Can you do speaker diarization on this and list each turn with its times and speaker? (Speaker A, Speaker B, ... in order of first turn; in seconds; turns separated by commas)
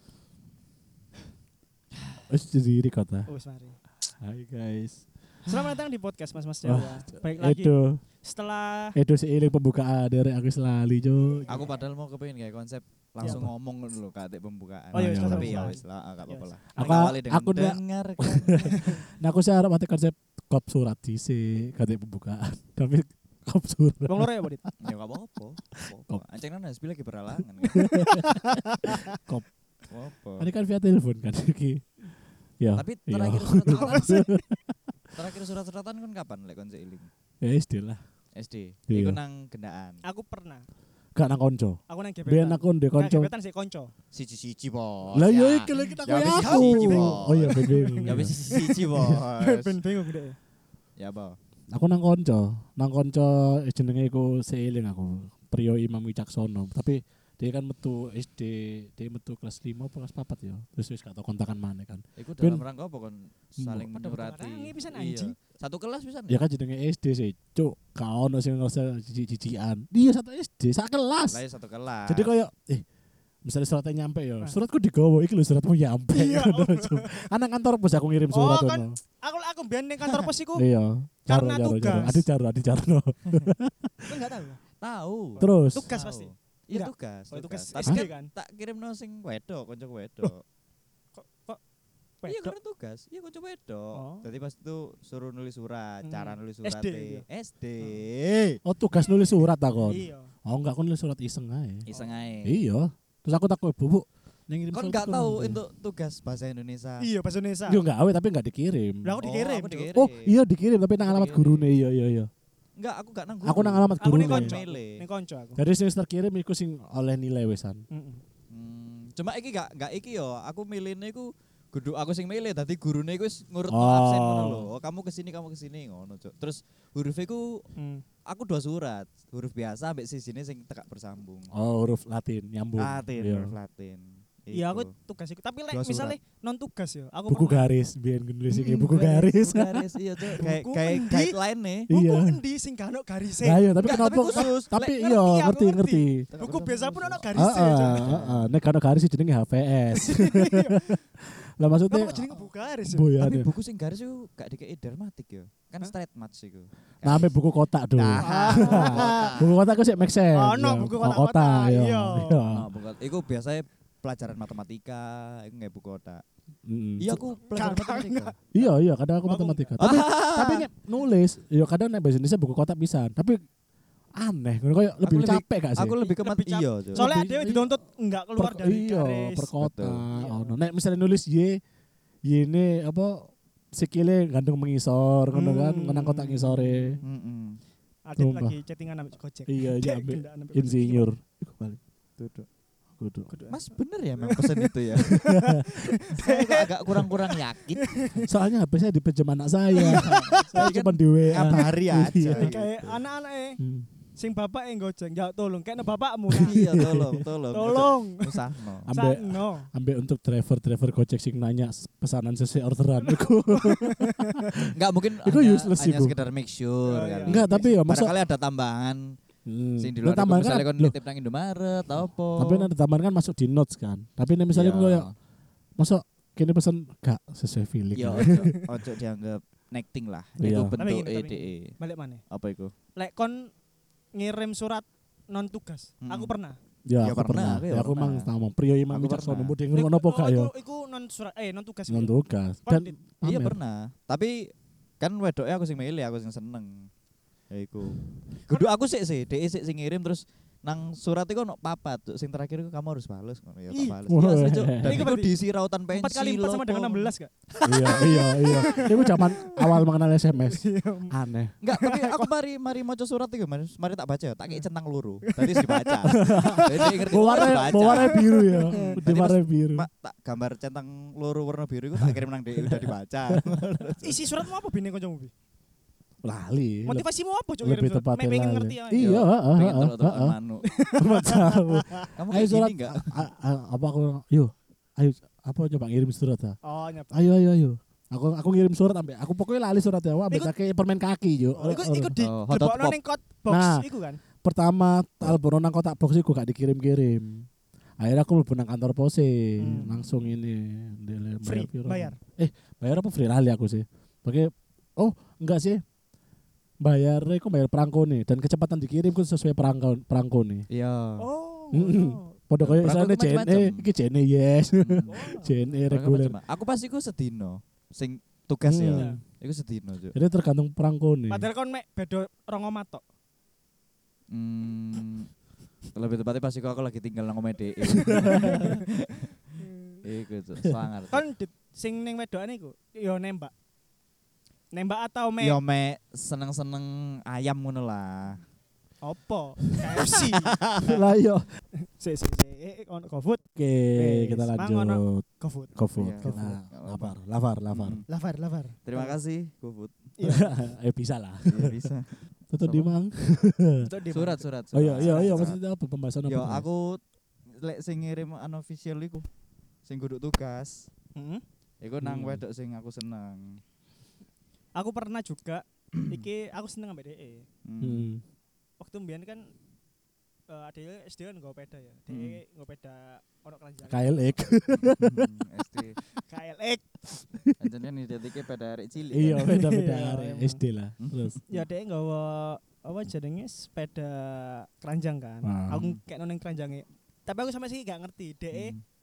Speaker A: 2.3-3.3, Speaker B: 3.3-3.8, Speaker A: 4.1-5.0, Speaker B: 5.4-8.9, Speaker A: 6.6-8.0, Speaker A: 8.9-11.7, Speaker C: 11.5-18.7, Speaker A: 13.2-13.5, Speaker A: 14.9-15.8, Speaker B: 14.9-17.1, Speaker A: 16.7-24.7, Speaker B: 18.6-19.0, Speaker B: 24.1-24.6, Speaker C: 24.8-28.1, Speaker A: 25.8-26.2, Speaker A: 27.7-29.5, Speaker C: 29.9-30.5, Speaker A: 30.4-32.0, Speaker A: 32.6-34.5, Speaker C: 32.7-34.3, Speaker B: 33.7-34.4, Speaker C: 35.1-37.1, Speaker A: 37.4-38.0, Speaker C: 38.4-40.0, Speaker A: 38.9-39.2, Speaker B: 40.0-40.6, Speaker A: 41.1-43.3, Speaker B: 41.9-43.9, Speaker C: 44.1-49.8, Speaker A: 45.1-48.4, Speaker B: 46.4-50.4, Speaker C: 51.0-51.4, Speaker A: 51.7-62.6, Speaker C: 62.2-66.4, Speaker A: 63.6-63.9, Speaker B: 63.9-65.3, Speaker A: 66.3-71.4, Speaker C: 71.3-72.3, Speaker A: 72.0-72.8, Speaker A: 73.4-78.9, Speaker B: 76.1-77.3, Speaker B: 78.3-80.6, Speaker A: 80.5-84.1, Speaker B: 81.3-82.3, Speaker B: 84.0-84.6, Speaker C: 84.8-90.4, Speaker B: 85.4-88.3, Speaker A: 85.4-85.9, Speaker B: 91.2-91.6, Speaker B: 92.2-92.5, Speaker C: 92.2-98.6, Speaker B: 93.9-94.3, Speaker B: 96.0-97.2, Speaker A: 98.6-101.9, Speaker B: 98.9-100.3, Speaker C: 101.8-102.6, Speaker A: 102.4-105.6, Speaker C: 104.7-107.0, Speaker B: 107.0-107.8, Speaker A: 107.7-109.2, Speaker B: 109.0-110.0, Speaker C: 109.2-110.3, Speaker A: 109.9-112.3, Speaker C: 111.0-111.7, Speaker C: 112.8-115.0, Speaker A: 113.4-114.6, Speaker B: 114.0-115.6, Speaker A: 115.6-117.8, Speaker B: 117.9-118.2, Speaker C: 118.5-127.6, Speaker A: 123.7-124.7, Speaker B: 127.8-128.0, Speaker C: 128.3-131.5, Speaker A: 131.5-133.5, Speaker C: 132.8-134.9, Speaker B: 134.5-137.7, Speaker C: 135.7-136.2, Speaker A: 137.3-140.4, Speaker C: 138.5-141.9, Speaker B: 140.4-141.4, Speaker A: 141.9-142.4, Speaker B: 141.9-148.1, Speaker A: 143.4-146.3, Speaker C: 143.8-144.7, Speaker C: 146.3-148.5, Speaker A: 147.3-153.5, Speaker B: 149.9-151.0, Speaker B: 151.9-153.1, Speaker C: 153.2-157.3, Speaker A: 157.0-162.7, Speaker C: 157.9-159.5, Speaker B: 158.2-159.4, Speaker B: 160.3-162.4, Speaker C: 162.5-166.2, Speaker A: 166.7-167.2, Speaker C: 167.0-168.3, Speaker B: 167.5-169.8, Speaker A: 168.5-173.4, Speaker C: 169.8-170.7, Speaker A: 174.2-176.0, Speaker C: 175.0-177.1, Speaker B: 176.0-179.5, Speaker A: 176.9-177.8, Speaker A: 178.3-181.6, Speaker C: 179.6-180.1, Speaker B: 180.1-180.6, Speaker A: 182.2-187.0, Speaker B: 185.3-187.0, Speaker C: 187.0-187.6, Speaker B: 188.0-191.1, Speaker A: 188.2-188.6, Speaker A: 189.5-191.8, Speaker C: 192.2-192.5, Speaker A: 193.0-193.3, Speaker B: 193.3-193.6, Speaker C: 193.5-195.2, Speaker B: 194.2-198.2, Speaker C: 196.2-198.2, Speaker A: 198.2-202.5, Speaker B: 199.7-200.7, Speaker C: 199.8-202.9, Speaker B: 202.3-203.6, Speaker A: 203.6-203.9, Speaker B: 204.2-206.7, Speaker C: 206.3-208.9, Speaker A: 206.5-207.2, Speaker B: 207.5-208.3, Speaker A: 208.8-214.7, Speaker B: 208.9-209.7, Speaker B: 213.1-214.3, Speaker C: 214.7-219.1, Speaker A: 215.2-216.2, Speaker B: 216.8-217.7, Speaker A: 217.2-218.2, Speaker A: 219.4-220.9, Speaker C: 219.8-222.7, Speaker A: 222.3-225.1, Speaker C: 224.5-225.1, Speaker A: 225.8-228.5, Speaker C: 227.9-231.8, Speaker B: 228.2-228.5, Speaker A: 230.4-230.8, Speaker B: 230.7-232.2, Speaker C: 232.3-232.7, Speaker B: 232.9-233.5, Speaker B: 234.1-236.6, Speaker C: 236.0-236.3, Speaker A: 236.9-240.5, Speaker C: 237.0-238.3, Speaker C: 238.9-239.5, Speaker B: 239.7-242.9, Speaker A: 241.9-243.6, Speaker C: 243.2-246.7, Speaker C: 247.5-257.1, Speaker B: 253.7-254.0, Speaker A: 254.1-255.1, Speaker B: 254.8-255.3, Speaker B: 255.9-259.8, Speaker A: 257.6-261.5, Speaker C: 257.9-258.8, Speaker B: 260.4-261.1, Speaker C: 261.6-274.1, Speaker B: 261.7-262.3, Speaker B: 265.3-269.0, Speaker A: 266.1-269.9, Speaker A: 272.0-273.9, Speaker B: 274.0-275.3, Speaker A: 276.2-277.1, Speaker B: 276.9-279.1, Speaker A: 277.6-280.4, Speaker C: 278.9-280.6, Speaker B: 280.6-282.1, Speaker A: 280.9-286.6, Speaker C: 282.1-283.0, Speaker B: 286.6-287.2, Speaker A: 287.1-292.1, Speaker B: 290.3-290.5, Speaker B: 291.5-294.2, Speaker C: 292.2-292.9, Speaker A: 293.5-293.8, Speaker A: 294.4-297.5, Speaker A: 298.0-305.8, Speaker B: 299.6-300.0, Speaker B: 301.4-302.1, Speaker A: 306.8-310.6, Speaker C: 310.7-311.3, Speaker B: 311.2-312.4, Speaker A: 311.7-316.4, Speaker C: 312.6-313.9, Speaker C: 314.8-315.1, Speaker B: 315.1-315.8, Speaker C: 315.9-320.1, Speaker A: 318.6-319.2, Speaker B: 318.9-319.2, Speaker A: 320.1-321.5, Speaker B: 321.3-323.0, Speaker C: 324.3-325.3, Speaker C: 325.9-329.4, Speaker A: 328.0-328.5, Speaker B: 329.6-330.0, Speaker C: 330.0-331.2, Speaker B: 331.1-333.5, Speaker B: 334.7-335.6, Speaker C: 335.4-338.4, Speaker B: 339.0-340.6, Speaker C: 340.0-341.0, Speaker A: 340.8-341.5, Speaker B: 341.8-343.4, Speaker A: 343.5-348.0, Speaker B: 343.9-345.7, Speaker C: 345.9-347.1, Speaker C: 347.7-348.0, Speaker B: 348.1-349.1, Speaker C: 348.8-350.4, Speaker B: 350.2-350.6, Speaker A: 350.2-351.9, Speaker C: 351.4-352.9, Speaker A: 352.5-353.9, Speaker B: 353.8-355.4, Speaker C: 354.1-355.6, Speaker A: 354.7-356.6, Speaker C: 356.2-357.0, Speaker C: 357.6-359.2, Speaker C: 359.9-360.9, Speaker B: 361.1-361.4, Speaker C: 361.8-363.6, Speaker A: 362.0-362.4, Speaker B: 364.8-367.4, Speaker C: 366.0-366.2, Speaker C: 367.6-368.1, Speaker A: 367.8-368.2, Speaker B: 368.8-369.5, Speaker B: 370.5-374.2, Speaker C: 372.1-372.4, Speaker A: 373.9-375.2, Speaker C: 374.9-376.0, Speaker B: 376.2-376.9, Speaker C: 377.6-379.5, Speaker A: 379.1-381.4, Speaker B: 379.2-380.6, Speaker C: 381.0-381.6, Speaker B: 381.5-388.7, Speaker A: 385.4-385.9, Speaker C: 388.5-388.8